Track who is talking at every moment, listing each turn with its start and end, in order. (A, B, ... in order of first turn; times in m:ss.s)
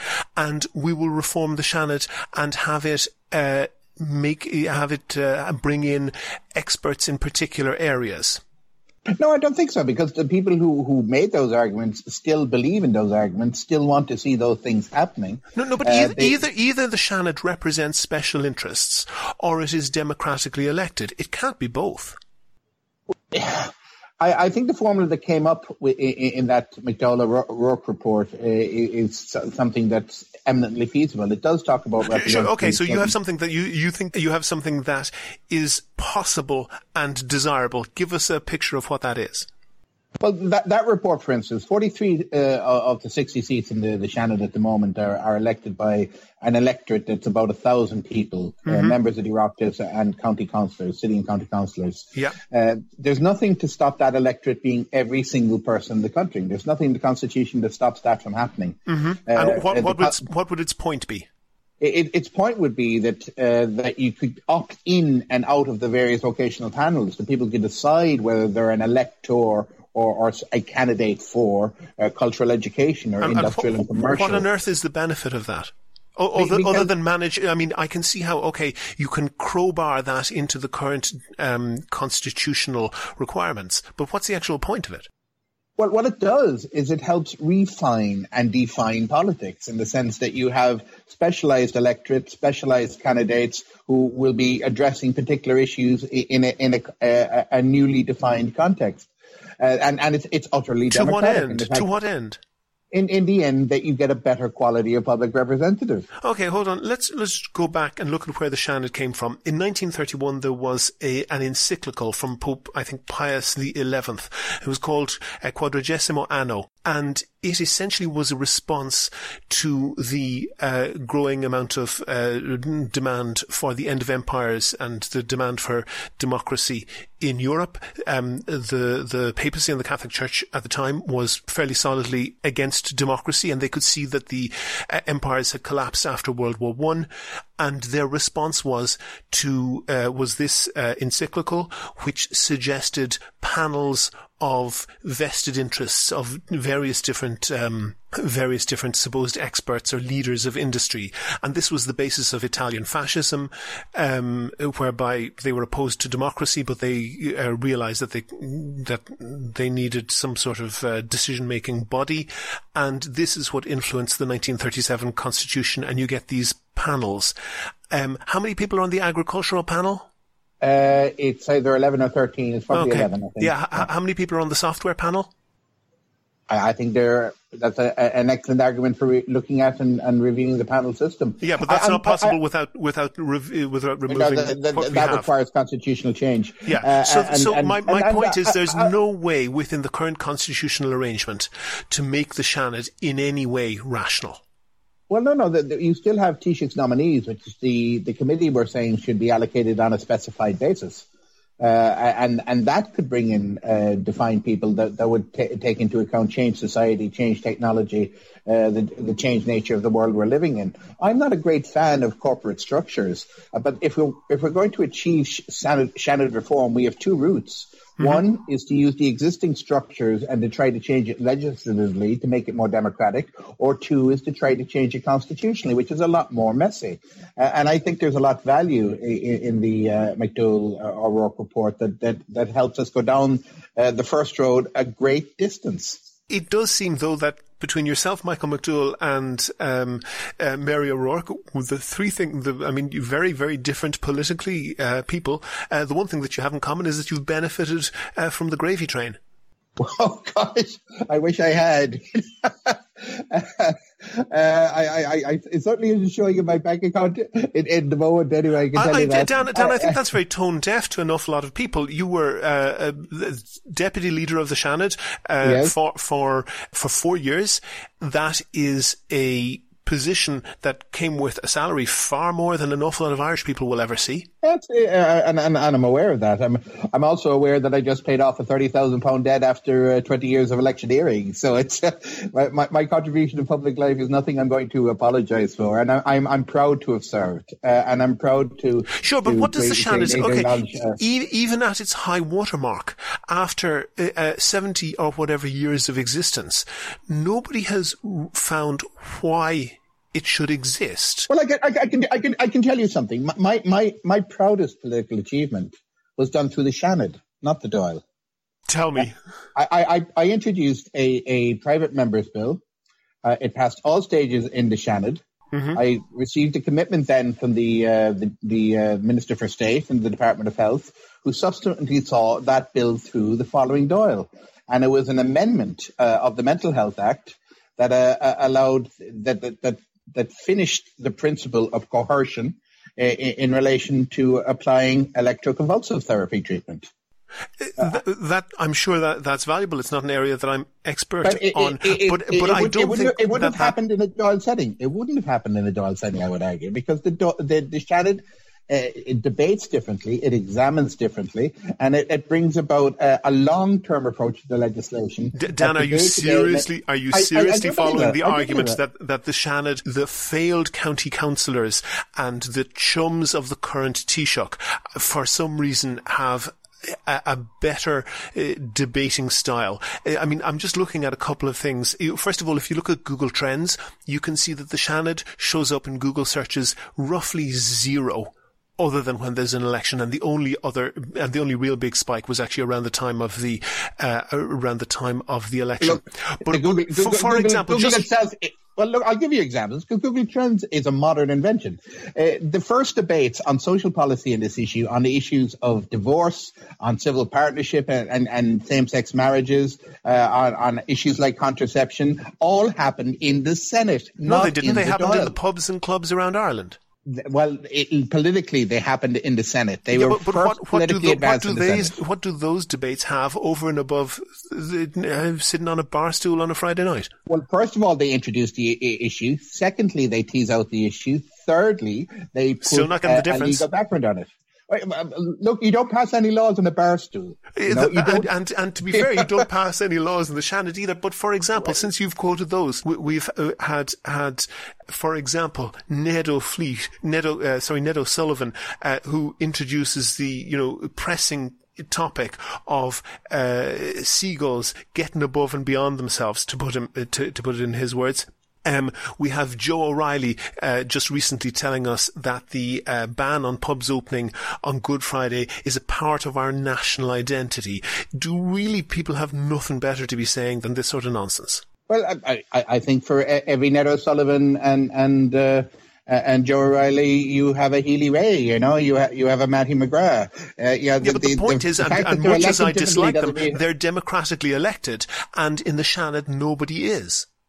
0:00.4-0:08.4 A
0:09.0-0:16.4 B
0:15.6-0:22.2 A
0:23.3-0:33.1 B
0:32.0-0:39.5 A
0:40.2-1:00.2 B
0:48.7-0:48.9 A
0:58.9-1:01.3 A
1:01.8-1:14.4 B
1:13.2-1:25.1 A
1:16.4-1:16.9 B
1:25.8-1:39.1 B
1:39.6-1:41.9 B
1:40.9-1:42.4 A
1:42.9-1:46.1 B
1:46.2-2:47.3 A
2:47.9-2:50.1 A
2:50.6-2:53.9 B
2:52.7-2:55.3 A
2:56.5-3:02.4 B
3:01.4-3:05.3 A
3:04.1-3:08.9 B
3:06.7-3:14.4 A
3:15.1-3:21.0 B
3:21.6-3:56.0 B
3:38.0-3:38.2 A
3:56.3-4:09.2 A
4:09.8-4:20.0 B
4:18.7-4:34.3 A
4:25.4-4:25.7 B
4:34.4-4:51.0 B
4:48.9-5:01.3 A
5:01.3-5:08.0 B
5:08.7-5:09.1 A
5:09.6-5:12.6 B
5:13.2-5:15.2 B
5:15.5-5:15.8 A
5:15.7-5:36.9 B
5:37.6-5:43.7 A
5:41.2-5:58.8 B
5:55.3-6:28.1 A
6:25.8-6:45.4 B
6:44.2-6:46.8 A
6:47.0-6:52.0 B
6:49.9-6:57.1 A
6:57.3-7:08.3 B
7:02.6-7:03.6 A
7:07.6-7:41.6 A
7:08.9-7:09.4 B
7:41.9-7:53.6 B
7:51.0-7:57.3 A